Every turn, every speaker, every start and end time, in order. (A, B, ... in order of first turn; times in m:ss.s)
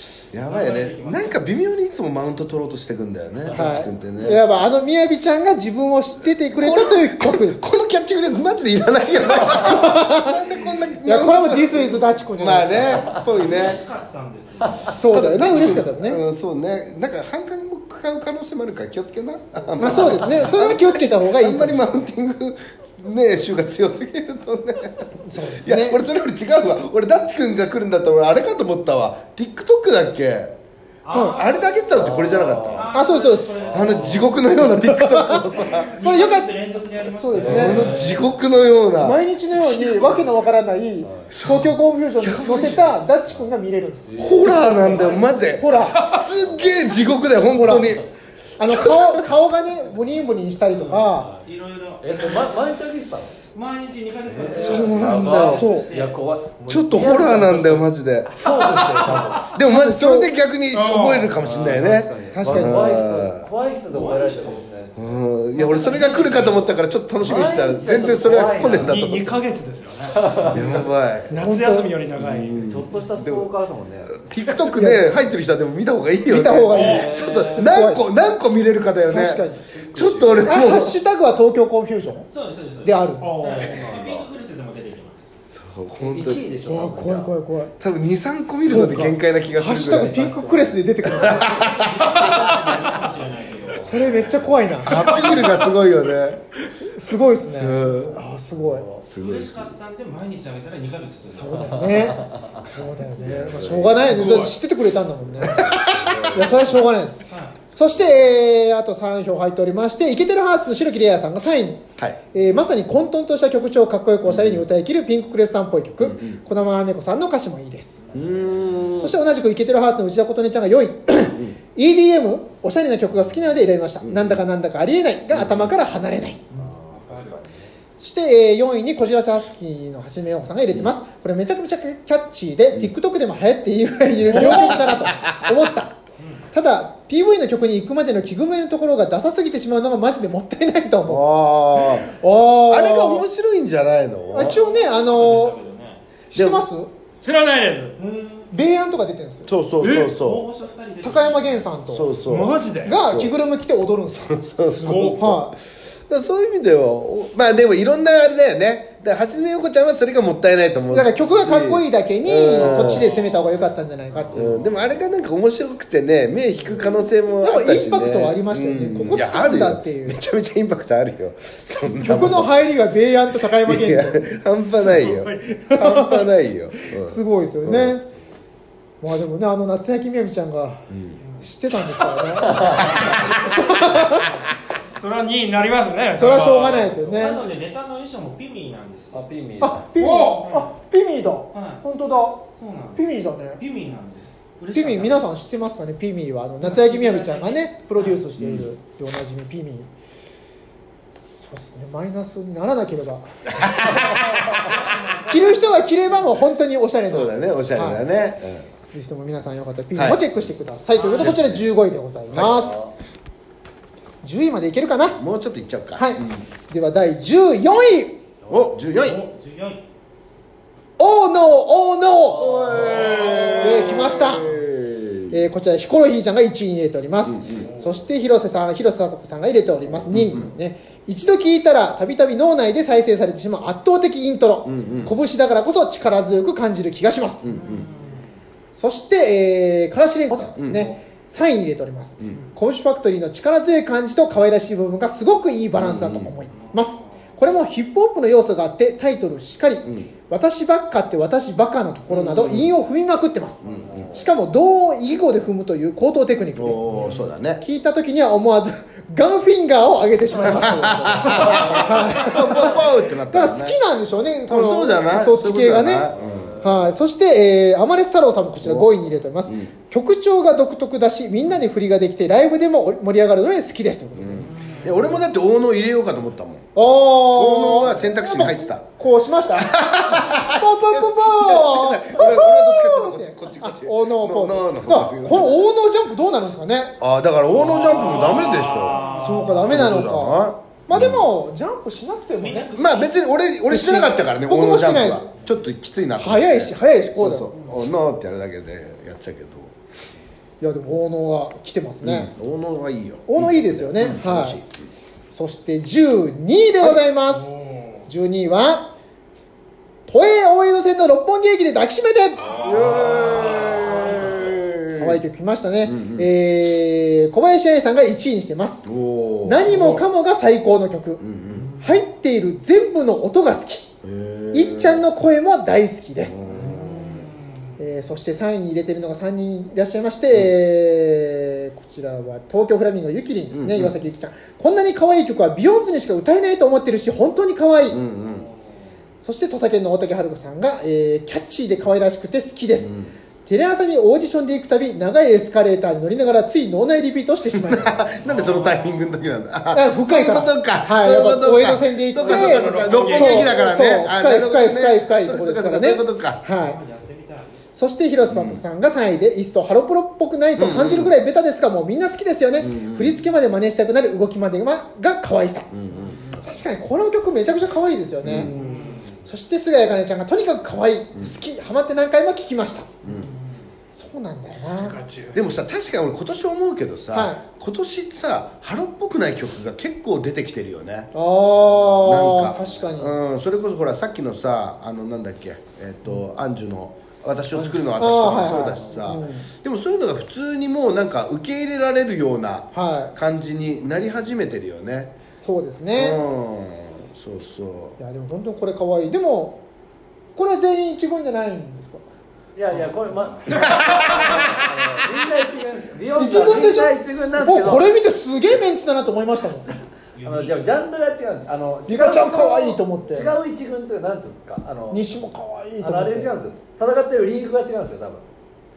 0:00.3-0:04.4 A
0:00.4-0:01.5 B
0:03.4-0:03.9 B
0:03.5-0:07.7 C
0:06.5-0:13.8 A
0:09.4-0:10.4 C
0:11.0-0:13.1 C
0:12.8-0:15.0 B
0:14.6-0:14.9 D
0:14.9-0:16.2 C
0:15.1-0:30.5 A
0:19.8-0:21.8 C
0:19.8-0:20.5 D
0:25.2-0:26.0 C
0:31.0-0:34.5 B
0:31.1-0:31.4 C
0:31.2-0:32.9 A
0:31.9-0:34.3 D
0:32.9-0:33.7 C
0:33.7-0:35.9 A
0:34.6-0:36.5 C
0:35.6-0:38.4 B
0:37.0-0:38.0 C
0:37.3-0:38.4 D
0:37.4-0:40.2 A
0:39.0-0:46.0 C
0:41.0-0:41.3 D
0:41.3-0:43.0 A
0:44.0-0:45.5 D
0:44.2-0:48.0 A
0:45.9-0:46.3 E
0:46.1-0:47.0 D
0:47.4-0:48.0 C
0:47.6-0:48.1 D
0:48.6-0:51.3 C
0:48.6-0:49.3 A
0:50.7-0:52.5 B
0:51.1-0:51.4 D
0:52.0-0:53.4 D
0:53.5-0:56.2 B
0:54.3-0:59.5 D
0:54.4-0:55.9 A
0:55.6-0:55.9 C
0:56.7-0:58.3 A
0:58.5-0:59.3 E
0:59.5-1:03.5 A
0:59.6-1:00.3 C
1:00.7-1:01.3 E
1:01.4-1:05.2 D
1:02.3-1:03.0 C
1:03.9-1:04.6 B
1:05.0-1:09.4 A
1:05.7-1:06.5 E
1:05.8-1:06.7 B
1:07.2-1:09.0 D
1:08.8-1:10.6 E
1:10.1-1:10.8 D
1:10.5-1:11.3 A
1:11.3-1:12.6 E
1:11.3-1:12.0 C
1:12.2-1:13.5 A
1:12.6-1:14.2 D
1:14.1-1:21.0 A
1:14.7-1:15.2 C
1:16.2-1:18.0 C
1:16.8-1:17.1 E
1:16.8-1:17.7 D
1:19.1-1:19.6 C
1:19.7-1:20.6 D
1:20.5-1:22.3 C
1:22.3-1:25.3 B
1:22.8-1:23.4 C
1:23.2-1:23.8 E
1:23.4-1:24.3 D
1:25.5-1:26.4 A
1:26.0-1:27.3 D
1:26.6-1:27.7 C
1:27.8-1:30.2 A
1:28.6-1:31.6 C
1:29.7-1:31.3 D
1:31.0-1:32.5 A
1:31.3-1:34.4 B
1:32.0-1:32.4 E
1:33.7-1:35.2 C
1:34.8-1:36.4 A
1:34.8-1:35.7 E
1:36.8-1:38.9 C
1:37.5-1:38.2 A
1:38.6-1:39.0 D
1:39.0-1:39.7 A
1:39.2-1:42.2 B
1:41.3-1:58.0 C
1:41.5-1:42.6 D
1:43.1-1:44.5 A
1:44.0-1:44.6 E
1:45.4-1:46.6 A
1:45.4-1:46.9 D
1:47.3-1:47.6 B
1:54.2-1:54.6 A
1:56.0-1:56.4 A
1:58.1-1:59.2 A
1:59.0-2:06.4 C
2:01.2-2:01.5 A
2:04.0-2:04.4 A
2:05.3-2:05.7 A
2:06.5-2:07.4 B
2:06.5-2:07.7 D
2:08.0-2:16.0 C
2:14.2-2:15.4 A
2:16.2-2:16.4 B
2:16.5-2:23.2 C
2:21.0-2:22.1 A
2:22.7-2:24.6 A
2:24.3-2:25.5 C
2:24.3-2:26.0 B
2:26.3-2:26.9 C
2:26.3-2:26.6 A
2:27.2-2:28.0 E
2:28.0-2:28.6 B
2:28.5-2:29.5 C
2:29.4-2:30.5 A
2:29.8-2:30.1 E
2:29.9-2:31.8 B
2:31.0-2:32.2 C
2:31.9-2:33.3 A
2:32.2-2:33.0 E
2:32.8-2:35.5 C
2:34.1-2:43.1 A
2:34.7-2:35.2 E
2:40.9-2:44.6 C
2:42.8-2:43.2 B
2:44.1-2:44.4 B
2:44.3-2:52.6 A
2:47.4-2:50.2 C
2:52.0-2:54.3 C
2:53.3-2:58.0 A
2:54.8-2:55.6 E
2:55.6-2:58.0 C
2:59.0-3:00.9 C
3:00.9-3:01.2 A
3:01.2-3:01.5 B
3:01.4-3:04.3 C
3:02.4-3:03.0 D
3:02.6-3:03.2 B
3:02.8-3:03.2 A
3:02.9-3:03.2 E
3:04.1-3:04.4 B
3:04.9-3:06.9 E
3:06.1-3:07.4 C
3:06.2-3:09.2 B
3:07.0-3:07.4 D
3:09.1-3:09.8 D
3:09.6-3:13.6 C
3:10.0-3:10.5 E
3:10.4-3:10.6 B
3:11.5-3:11.8 B
3:12.5-3:15.2 B
3:14.7-3:19.9 C
3:16.6-3:18.2 B
3:18.4-3:18.7 A
3:21.4-3:24.0 C
3:23.5-3:24.5 A
3:24.8-3:26.2 B
3:25.2-3:28.0 C
3:27.0-3:28.7 A
3:28.9-3:32.9 C
3:29.9-3:30.2 A
3:30.9-3:31.4 B
3:31.1-3:31.7 A
3:32.3-3:32.8 A
3:34.2-3:35.2 C
3:35.2-3:36.5 A
3:36.0-3:38.2 C
3:38.5-3:39.2 A
3:38.8-3:39.8 B
3:41.0-3:42.8 C
3:42.3-3:45.5 A
3:42.5-3:43.0 D
3:43.0-3:43.5 E
3:43.6-3:44.6 C
3:45.3-3:57.6 C
3:47.2-3:47.7 A
3:47.5-3:48.0 B
3:49.9-3:50.5 A
3:54.6-3:55.2 A
3:57.4-3:57.9 A
3:57.4-3:58.3 B
3:58.7-4:35.0 C
4:00.3-4:00.9 A
4:02.3-4:02.6 B
4:05.7-4:06.4 A
4:06.5-4:07.2 B
4:09.8-4:10.1 A
4:12.1-4:12.7 A
4:13.6-4:14.2 A
4:16.5-4:17.6 A
4:20.4-4:23.8 A
4:24.4-4:26.6 A
4:26.2-4:27.0 D
4:28.6-4:28.9 A
4:29.4-4:29.7 A
4:34.2-4:36.7 A
4:34.4-4:35.2 B
4:36.7-4:47.0 C
4:37.3-4:38.9 A
4:39.6-4:45.6 A
4:47.0-4:51.3 A
4:47.6-4:49.5 B
4:47.8-4:49.7 E
4:49.0-4:52.7 C
4:52.4-4:53.2 B
4:52.7-4:59.7 A
4:53.7-4:55.3 C
4:56.2-4:57.7 C
5:00.6-5:02.3 C
5:02.0-5:04.8 A
5:03.3-5:04.6 C
5:05.3-5:08.9 C
5:10.1-5:12.7 C
5:12.6-5:15.2 A
5:12.7-5:14.3 B
5:13.1-5:13.8 E
5:14.9-5:18.8 C
5:15.8-5:16.3 A
5:18.8-5:20.0 A
5:19.4-5:21.2 C
5:21.2-5:21.7 A
5:21.5-5:22.0 B
5:21.8-5:23.9 C
5:24.0-5:25.0 A
5:24.5-5:26.4 C
5:26.2-5:27.3 A
5:26.5-5:27.7 B
5:27.8-5:38.0 C
5:33.5-5:34.0 A
5:37.9-5:38.5 A
5:39.2-5:42.9 C
5:42.8-5:43.1 A
5:43.4-5:48.1 C
5:47.5-5:56.4 A
5:48.2-5:49.1 B
5:49.7-5:56.8 C
5:52.2-5:53.5 E
5:56.6-5:57.6 B
5:57.8-6:05.7 C
5:58.3-5:58.6 A
6:00.6-6:01.1 A
6:02.6-6:03.2 A
6:05.7-6:06.4 A
6:05.9-6:06.4 B
6:06.4-6:12.9 C
6:08.2-6:08.6 A
6:08.4-6:09.2 B
6:08.5-6:08.9 E
6:13.0-6:13.3 A
6:13.0-6:13.7 B
6:13.9-6:15.0 C
6:14.8-6:15.4 E
6:15.3-6:21.1 A
6:17.1-6:17.4 C
6:21.1-6:23.2 C
6:22.0-6:35.1 A
6:27.6-6:29.5 C
6:32.7-6:33.1 C
6:35.4-6:36.2 C
6:35.9-6:38.0 A
6:38.0-6:39.6 C
6:40.4-6:42.0 C
6:42.5-6:47.9 D
6:42.7-6:44.5 B
6:43.5-6:43.9 A
6:46.2-6:49.7 C
6:50.1-6:50.8 B
6:50.2-6:55.0 D
6:51.9-6:53.3 C
6:54.9-6:56.3 C
6:55.8-6:58.2 D